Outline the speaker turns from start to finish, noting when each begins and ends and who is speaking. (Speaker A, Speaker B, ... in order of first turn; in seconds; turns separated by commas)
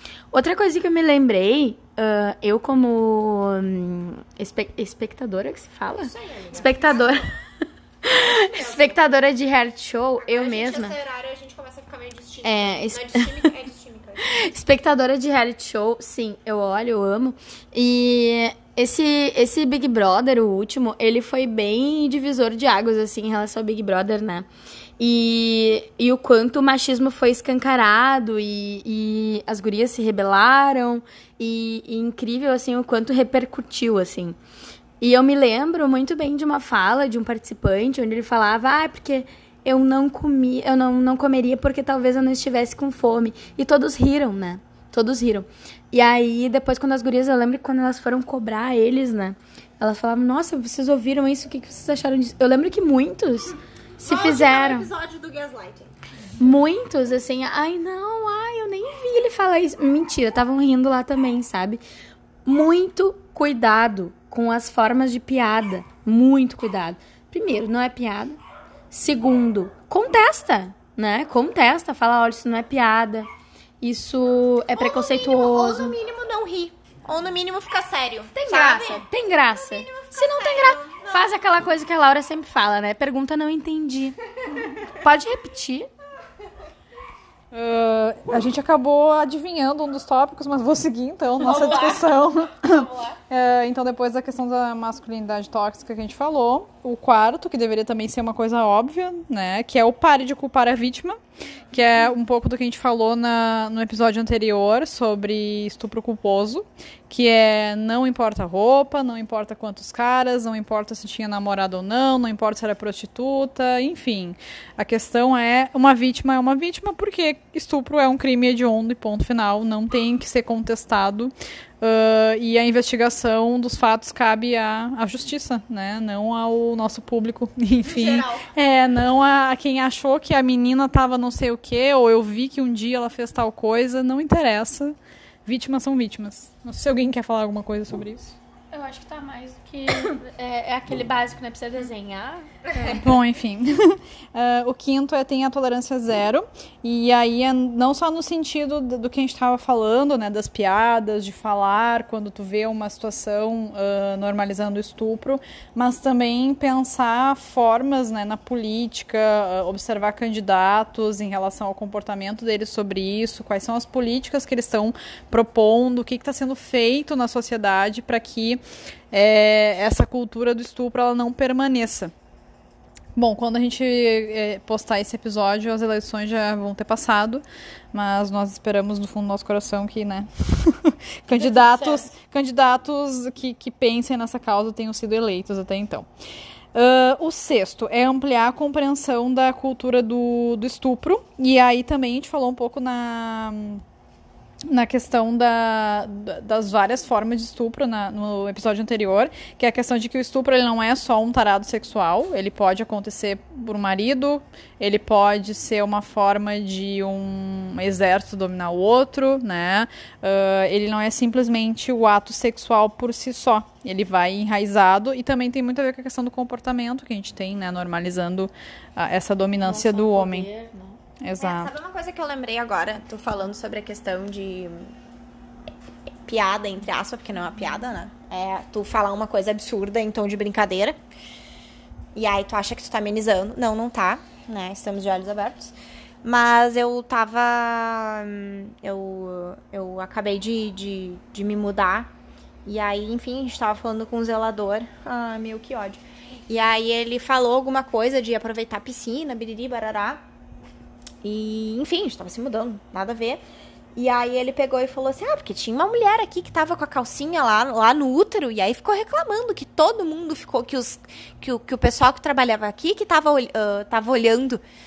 Speaker A: 0.3-7.3, Speaker B: 6.0-7.3, Speaker A: 8.0-10.9, Speaker B: 8.1-9.0, Speaker B: 10.2-14.5, Speaker A: 12.4-13.5, Speaker A: 14.2-24.4, Speaker A: 25.0-34.4, Speaker A: 35.0-54.9, Speaker B: 54.0-55.9, Speaker A: 56.4-61.8, Speaker A: 62.5-68.4, Speaker A: 68.9-73.3, Speaker A: 73.8-75.9, Speaker B: 74.7-81.4, Speaker A: 78.3-84.2, Speaker A: 84.7-85.9, Speaker C: 87.5-101.2, Speaker A: 91.4-92.0, Speaker C: 101.7-138.4, Speaker B: 127.8-128.5, Speaker A: 138.7-143.0, Speaker C: 142.8-168.6, Speaker C: 169.1-172.1, Speaker C: 173.1-186.1, Speaker A: 181.4-182.1, Speaker C: 186.7-193.8, Speaker C: 194.7-220.5, Speaker A: 219.6-221.0, Speaker C: 221.2-221.7, Speaker B: 221.4-224.9, Speaker B: 226.2-231.0, Speaker B: 232.1-242.1, Speaker B: 242.6-250.2, Speaker B: 251.2-253.4, Speaker B: 253.9-264.6